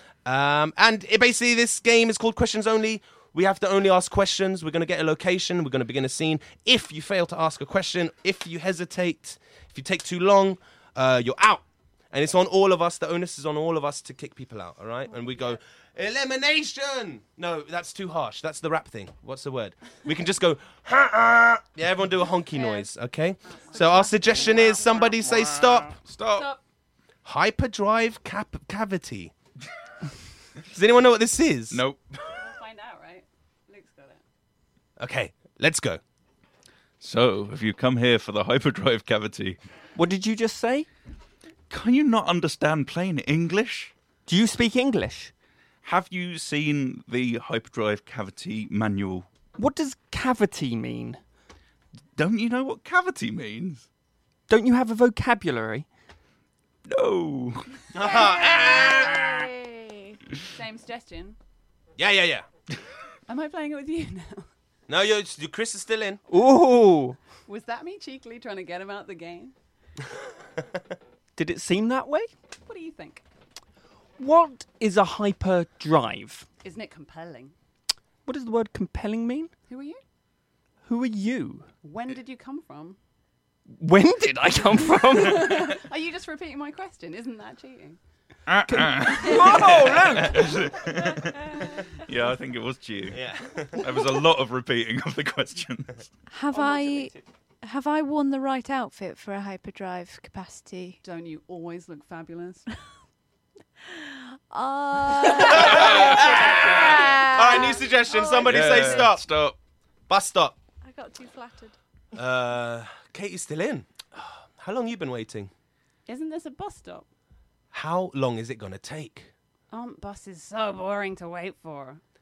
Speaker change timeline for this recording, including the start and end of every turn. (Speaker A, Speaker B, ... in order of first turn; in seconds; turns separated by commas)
Speaker A: 0.2-26.0, Speaker B: 22.5-22.9, Speaker B: 23.5-25.2, Speaker C: 25.2-26.6, Speaker B: 26.3-26.6, Speaker A: 27.2-29.3, Speaker A: 30.7-31.8, Speaker C: 31.7-32.2, Speaker B: 32.2-34.2, Speaker A: 35.0-36.0, Speaker C: 37.0-39.6, Speaker D: 39.9-40.9, Speaker C: 41.7-43.9, Speaker D: 44.3-45.3, Speaker C: 45.8-49.3, Speaker D: 49.6-51.2, Speaker C: 52.1-53.9, Speaker D: 54.5-55.9, Speaker C: 56.9-57.7, Speaker A: 57.9-59.3, Speaker E: 58.2-60.0, Speaker B: 60.5-61.4, Speaker A: 62.0-62.5, Speaker B: 63.3-64.5, Speaker A: 64.9-66.2, Speaker D: 66.3-67.2, Speaker B: 67.5-69.5, Speaker D: 71.4-72.3, Speaker B: 72.6-73.2, Speaker D: 74.2-76.5, Speaker B: 76.6-77.5, Speaker D: 78.2-79.5, Speaker B: 79.7-80.0, Speaker D: 80.8-81.7, Speaker B: 81.8-83.0, Speaker D: 83.7-85.8, Speaker B: 85.2-88.0, Speaker C: 88.5-96.1, Speaker D: 88.7-90.5, Speaker A: 93.1-94.0, Speaker E: 96.3-101.0, Speaker D: 96.5-97.2, Speaker B: 101.0-102.7, Speaker E: 103.9-109.0, Speaker A: 105.4-109.3, Speaker C: 105.9-106.1, Speaker B: 106.2-106.7, Speaker C: 108.4-109.6, Speaker A: 110.1-110.6, Speaker E: 110.8-111.7, Speaker A: 112.1-115.5, Speaker B: 116.1-117.1, Speaker A: 117.7-119.3, Speaker B: 119.7-122.0